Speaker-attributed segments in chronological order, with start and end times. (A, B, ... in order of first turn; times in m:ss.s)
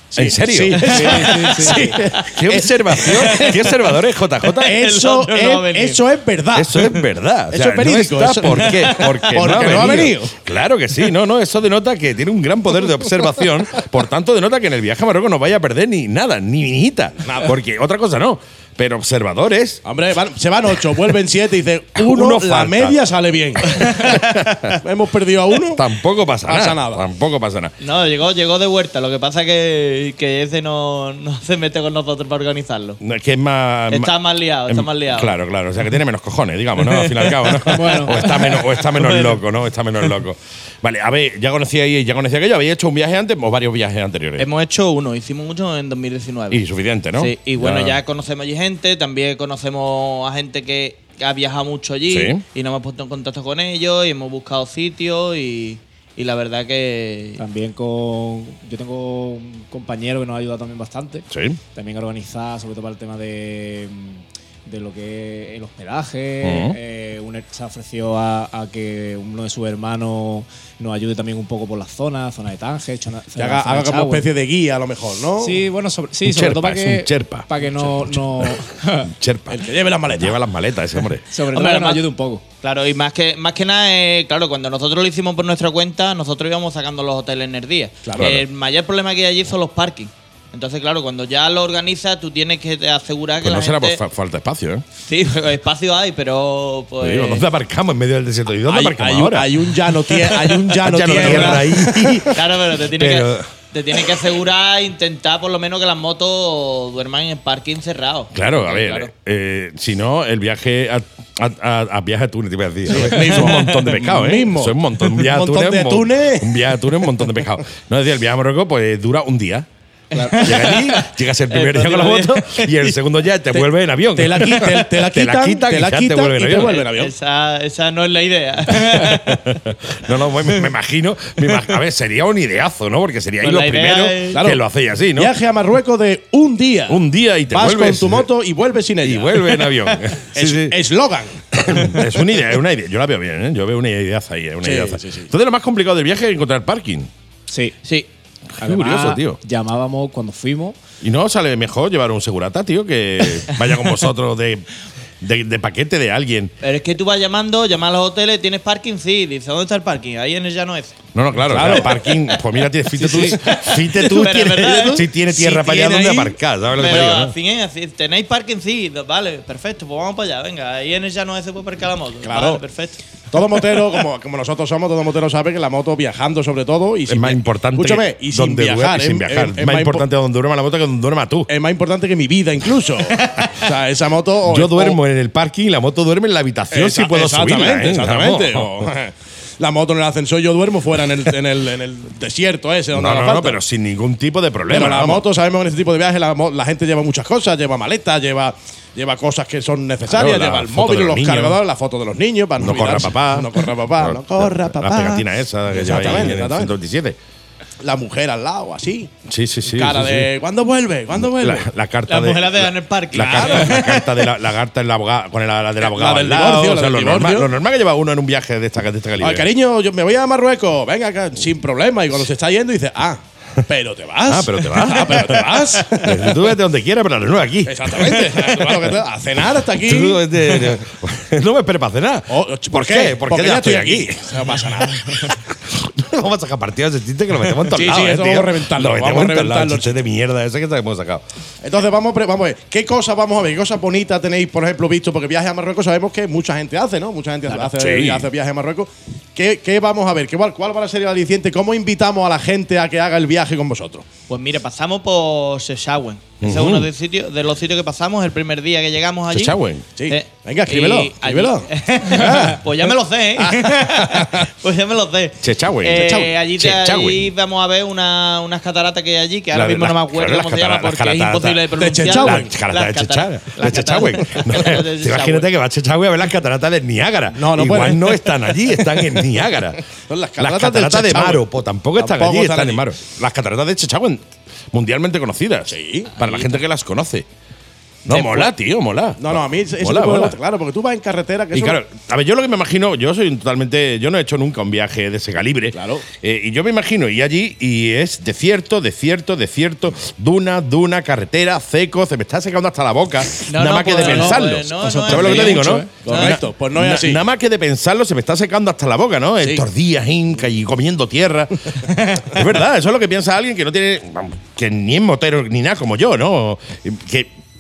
0:00.1-0:03.5 A
0:00.2-0:01.1 B
0:00.9-0:02.4 C
0:00.9-0:01.9 D
0:02.1-0:04.8 B
0:03.0-0:03.8 C
0:04.4-0:06.0 C
0:04.6-0:07.0 A
0:06.6-0:19.8 B
0:07.5-0:10.3 A
0:08.5-0:09.5 C
0:17.2-0:17.5 A
0:19.8-0:23.8 A
0:22.0-0:23.0 B
0:23.6-0:24.8 B
0:24.8-0:25.8 A
0:25.7-0:27.7 B
0:26.5-0:27.1 A
0:27.8-0:33.0 C
0:33.0-0:34.1 B
0:33.9-0:35.3 C
0:34.7-0:44.5 B
0:36.9-0:37.5 C
0:37.7-0:38.3 D
0:38.1-0:39.4 C
0:44.4-0:46.6 C
0:46.5-0:48.0 B
0:47.2-0:57.4 C
0:52.1-0:52.4 B
0:57.4-1:14.3 D
1:01.3-1:01.6 B
1:06.4-1:06.8 B
1:13.4-1:15.6 A
1:15.4-1:19.1 D
1:16.2-1:21.3 B
1:19.5-1:20.4 A
1:21.3-1:22.4 D
1:21.5-1:22.0 C
1:22.6-1:34.0 C
1:28.0-1:28.4 A
1:28.1-1:28.4 B
1:33.4-1:34.8 B
1:35.0-1:37.4 C
1:37.0-1:43.5 B
1:38.7-1:41.9 A
1:41.1-1:49.1 C
1:48.3-1:59.7 B
1:52.9-1:56.6 A
2:00.1-2:00.4 D
2:00.1-2:03.0 C
2:00.4-2:06.8 B
2:04.2-2:07.1 A
2:06.7-2:09.5 C
2:09.1-2:15.3 B
2:13.4-2:14.4 C
2:14.3-2:14.6 A
2:15.2-2:19.5 A
2:16.9-2:18.3 B
2:19.0-2:20.8 B
2:20.3-2:21.7 A
2:21.5-2:27.1 B
2:24.6-2:25.3 A
2:27.5-2:27.8 D
2:28.6-2:30.8 D
2:28.6-2:29.4 B
2:31.0-2:34.7 B
2:35.2-2:36.5 B
2:36.6-2:41.0 C
2:41.2-2:47.4 B
2:41.5-2:42.0 A
2:41.9-2:42.2 C
2:43.0-2:43.4 D
2:43.3-2:46.0 C
2:45.7-2:46.3 A
2:46.7-2:53.0 C
2:52.2-2:52.6 A
2:53.3-3:00.0 A
2:57.1-3:01.5 B
3:01.5-3:05.0 A
3:03.1-3:03.5 C
3:04.5-3:08.9 B
3:06.7-3:13.6 A
3:12.9-3:15.3 B
3:14.7-3:26.7 A
3:20.1-3:21.6 B
3:22.6-3:27.2 B
3:27.8-3:29.1 A
3:29.3-3:30.3 B
3:29.7-3:31.7 A
3:31.1-3:39.5 B
3:32.1-3:34.2 C
3:33.2-3:33.7 A
3:35.8-3:37.5 A
3:39.2-3:46.4 A
3:44.3-3:48.9 B
3:47.7-3:50.2 A
3:49.8-4:01.2 B
3:52.3-3:55.4 A
3:57.7-4:00.0 A
4:01.6-4:14.1 A
4:07.7-4:08.3 B
4:14.3-4:35.5 C
4:16.4-4:16.9 B
4:19.3-4:19.9 B
4:20.0-4:22.6 A
4:23.4-4:24.3 A
4:25.4-4:27.3 B
4:26.0-4:26.3 A
4:29.5-4:39.8 B
4:31.8-4:32.5 A
4:37.3-4:38.2 A
4:40.1-4:41.4 A
4:40.4-4:47.3 B
4:42.0-4:42.9 A
4:45.7-4:46.1 A
4:46.2-4:46.5 C
4:48.1-4:50.4 B
4:49.2-4:51.8 A
4:51.5-5:11.8 B
4:55.7-4:56.1 A
5:03.5-5:06.4 C
5:04.0-5:05.9 D
5:06.0-5:07.2 A
5:11.9-5:12.3 C
5:12.3-5:17.3 B